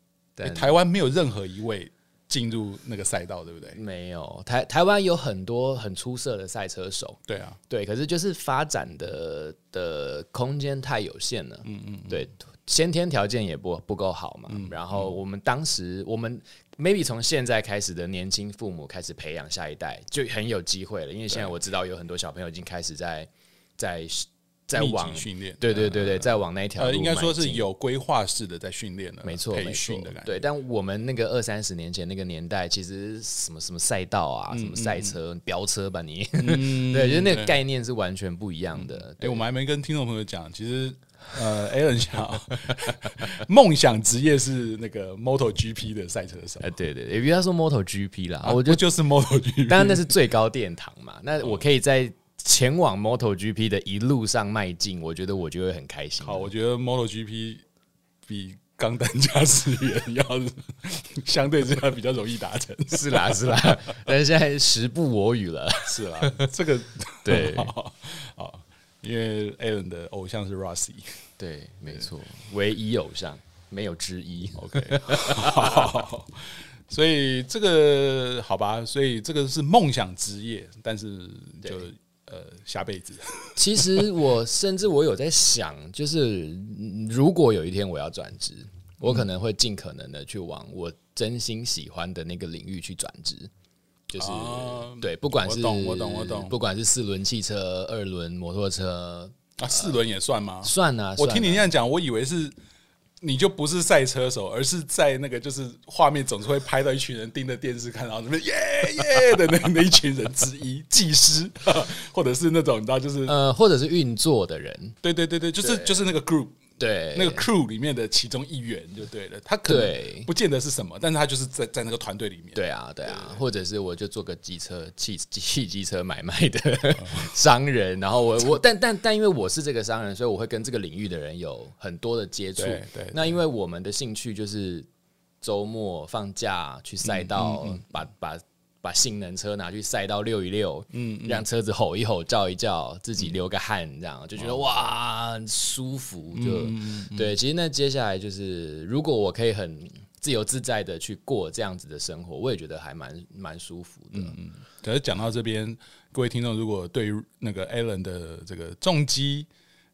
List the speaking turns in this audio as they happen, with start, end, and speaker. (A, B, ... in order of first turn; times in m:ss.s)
0:00.4-0:00.7 A
0:00.4-0:03.8 B
0:03.7-0:27.6 A
0:07.3-0:07.6 B
0:11.6-0:12.2 B
0:14.5-0:15.2 B
0:21.3-0:21.6 B
0:24.7-0:30.4 B
0:29.2-0:39.4 A
0:34.5-0:35.2 B
0:36.4-0:37.6 B
0:38.7-0:46.7 B
0:46.6-0:48.8 A
0:48.4-0:50.1 B
0:49.7-0:56.5 A
0:56.2-0:57.6 B
0:58.3-1:04.0 B
1:02.9-1:06.5 A
1:05.9-1:11.2 B
1:07.2-1:07.7 A
1:11.4-1:16.0 A
1:14.6-1:24.1 B
1:23.6-1:33.5 A
1:34.1-1:39.9 A
1:34.2-1:36.6 B
1:39.6-1:42.6 B
1:40.6-1:41.6 A
1:43.2-1:53.3 B
1:53.3-1:55.0 A
1:55.0-1:56.6 B
1:55.6-1:56.1 A
1:56.8-1:57.4 A
1:57.1-2:03.4 B
1:59.7-2:00.3 A
2:02.6-2:14.9 A
2:07.0-2:07.3 B
2:12.6-2:13.4 B
2:15.4-2:34.3 A
2:17.0-2:17.8 B
2:20.9-2:21.4 B
2:26.3-2:27.3 B
2:34.1-2:39.5 B